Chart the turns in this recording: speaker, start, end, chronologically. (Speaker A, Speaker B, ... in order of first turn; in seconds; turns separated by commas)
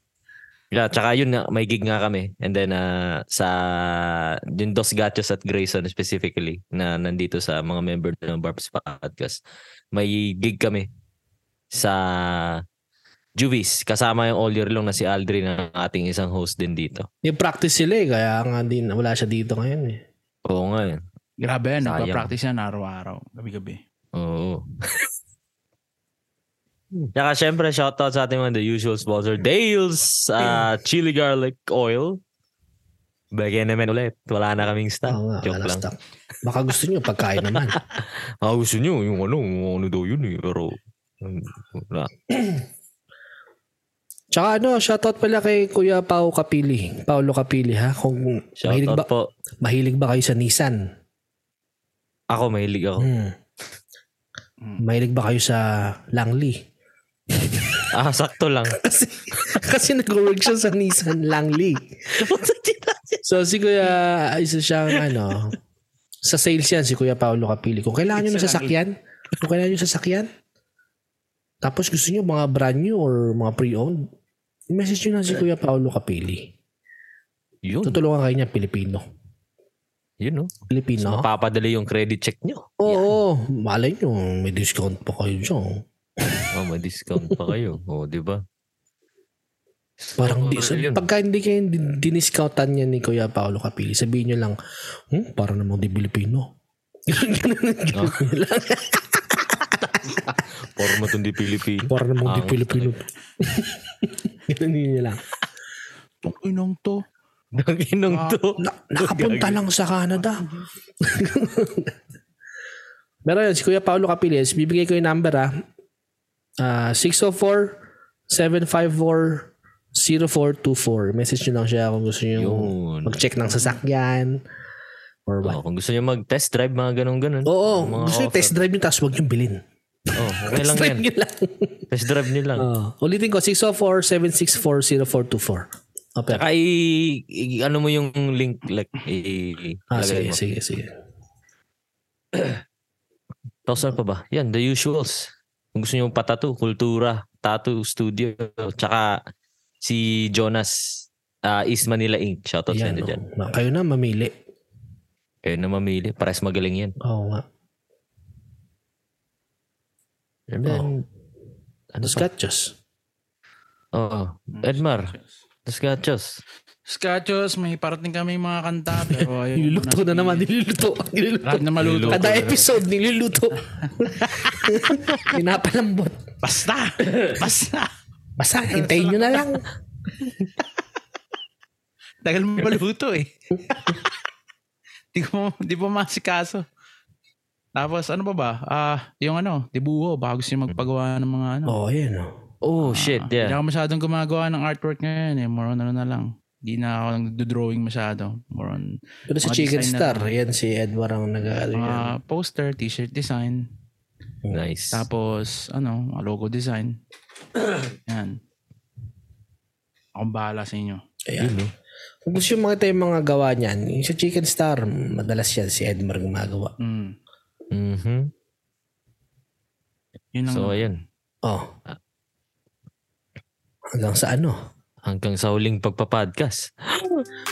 Speaker A: 0.7-9.4, Speaker A: 9.9-10.9, Speaker A: 11.7-12.6, Speaker A: 13.4-17.1, Speaker B: 17.2-20.0, Speaker A: 20.5-21.0, Speaker C: 21.4-23.8, Speaker A: 21.8-22.3, Speaker A: 24.1-25.1, Speaker A: 27.0-32.2, Speaker A: 33.4-35.9, Speaker B: 35.1-37.8, Speaker A: 37.4-42.1, Speaker B: 42.3-42.6, Speaker B: 44.3-49.1, Speaker A: 48.6-49.3, Speaker B: 49.6-50.8, Speaker A: 52.3-53.1, Speaker B: 53.0-53.3, Speaker B: 54.8-56.6, Speaker B: 57.3-57.9, Speaker A: 57.9-58.8, Speaker B: 58.8-62.0, Speaker A: 62.1-63.2, Speaker B: 63.2-65.5, Speaker B: 66.2-70.3, Speaker A: 68.2-68.7, Speaker B: 71.6-74.1, Speaker B: 74.7-76.5, Speaker A: 77.7-78.0, Speaker B: 77.8-79.0, Speaker A: 80.2-83.2, Speaker B: 80.7-81.3, Speaker B: 82.8-86.5, Speaker A: 86.5-88.4, Speaker A: 90.0-91.1, Speaker B: 90.2-94.6, Speaker B: 95.1-96.5, Speaker B: 97.1-100.9, Speaker A: 97.9-98.2, Speaker A: 100.1-103.0, Speaker B: 101.9-105.2, Speaker C: 106.2-107.0, Speaker A: 107.5-109.6, Speaker C: 108.1-108.4, Speaker B: 108.6-110.5, Speaker C: 110.2-110.7, Speaker B: 111.0-111.9, Speaker B: 113.2-115.6, Speaker B: 116.6-124.4, Speaker A: 122.4-123.2, Speaker B: 125.3-125.6, Speaker A: 125.4-128.5, Speaker B: 127.5-131.9, Speaker A: 130.2-131.1, Speaker A: 131.9-132.7, Speaker B: 132.6-136.4, Speaker A: 136.3-140.4, Speaker B: 139.9-140.9, Speaker A: 142.3-142.6, Speaker A: 143.7-149.2, Speaker A: 149.8-153.2, Speaker B: 152.7-154.3, Speaker A: 155.4-156.9, Speaker B: 157.0-157.4, Speaker A: 160.5-160.9, Speaker B: 160.7-161.1, Speaker A: 161.9-162.3, Speaker B: 162.0-162.8, Speaker A: 163.9-165.1, Speaker C: 164.6-165.4, Speaker A: 165.7-166.4, Speaker C: 166.9-170.5, Speaker B: 169.5-176.2, Speaker C: 171.4-172.7, Speaker A: 171.8-172.5, Speaker C: 173.9-174.5, Speaker C: 176.4-177.9, Speaker A: 177.0-177.4, Speaker B: 178.4-179.7, Speaker C: 178.7-179.6, Speaker C: 182.2-184.1, Speaker C: 185.1-186.7, Speaker C: 187.8-191.8, Speaker B: 191.7-192.3, Speaker A: 192.6-193.6, Speaker C: 192.8-200.3, Speaker B: 199.3-202.2, Speaker C: 201.8-203.7, Speaker A: 204.5-205.1, Speaker C: 204.9-207.0, Speaker C: 208.1-208.4, Speaker C: 210.2-211.0, Speaker B: 211.3-211.6, Speaker A: 211.4-211.7, Speaker B: 212.2-216.7, Speaker C: 216.8-217.2, Speaker A: 217.7-218.3, Speaker C: 220.3-221.0, Speaker A: 220.5-221.0, Speaker B: 221.4-221.7, Speaker B: 223.9-224.6, Speaker A: 225.1-227.2